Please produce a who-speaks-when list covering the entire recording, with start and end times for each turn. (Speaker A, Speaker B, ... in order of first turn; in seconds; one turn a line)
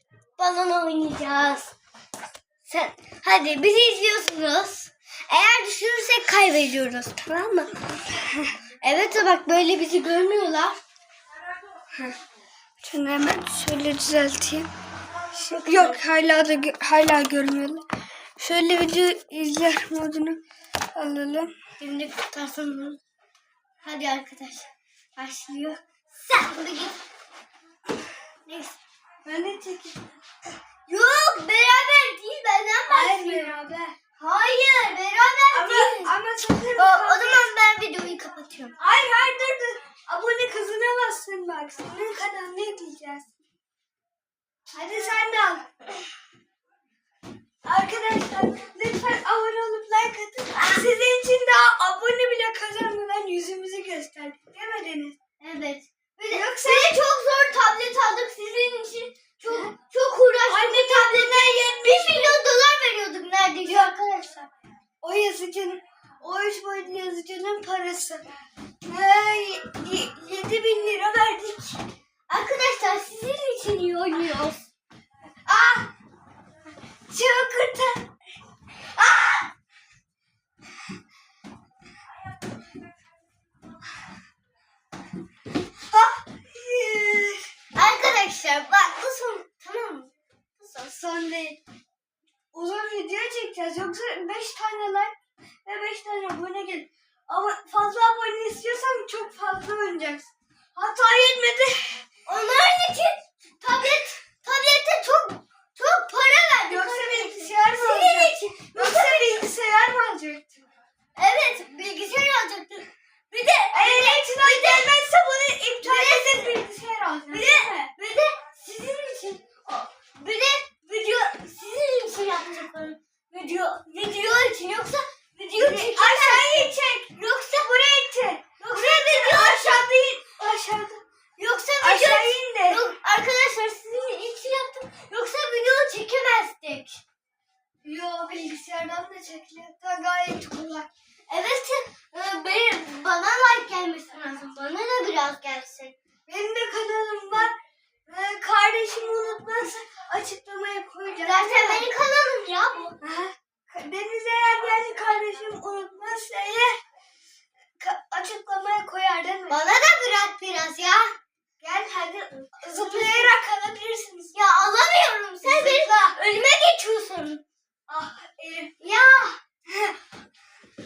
Speaker A: 0.4-1.7
Speaker A: 2.6-7.2
Speaker B: 7.2-8.5
Speaker A: 8.8-10.8
Speaker B: 12.8-14.7
Speaker B: 15.3-17.8
Speaker A: 15.4-16.0
Speaker B: 18.4-20.4
Speaker B: 20.9-21.5
Speaker A: 21.8-23.0
Speaker A: 23.8-27.0
Speaker A: 28.4-28.8
Speaker B: 29.2-30.0
Speaker A: 30.9-33.5
Speaker B: 32.9-34.0
Speaker A: 34.2-36.1
Speaker B: 35.5-37.5
Speaker A: 36.8-38.7
Speaker B: 38.8-43.3
Speaker B: 44.7-45.6
Speaker B: 47.6-55.1
Speaker A: 50.5-50.8
Speaker A: 55.4-64.5
Speaker B: 56.3-57.0
Speaker B: 60.5-62.5
Speaker B: 63.6-64.0
Speaker B: 65.0-68.2
Speaker B: 68.8-71.8
Speaker A: 72.3-74.7
Speaker B: 75.5-75.9
Speaker B: 77.1-78.0
Speaker A: 79.0-79.5
Speaker B: 85.9-87.5
Speaker A: 87.7-91.0
Speaker B: 90.9-91.6
Speaker B: 92.5-95.1
Speaker B: 95.6-102.0
Speaker A: 102.3-109.4
Speaker B: 106.7-110.7
Speaker A: 111.2-115.0
Speaker B: 113.7-117.9
Speaker A: 115.8-116.6
Speaker A: 117.3-127.7
Speaker B: 125.5-131.0
Speaker A: 128.6-129.9
Speaker A: 131.4-137.0
Speaker B: 131.8-132.8
Speaker B: 137.8-140.9
Speaker A: 141.3-145.9
Speaker B: 146.3-147.6
Speaker B: 148.1-151.9
Speaker A: 151.2-152.9
Speaker B: 153.0-156.8
Speaker B: 157.8-159.6
Speaker A: 159.5-161.1
Speaker B: 161.6-164.3
Speaker A: 162.7-163.3
Speaker A: 164.3-167.4
Speaker B: 165.4-166.2
Speaker B: 167.9-168.7
Speaker A: 168.8-169.4
Speaker B: 169.7-169.9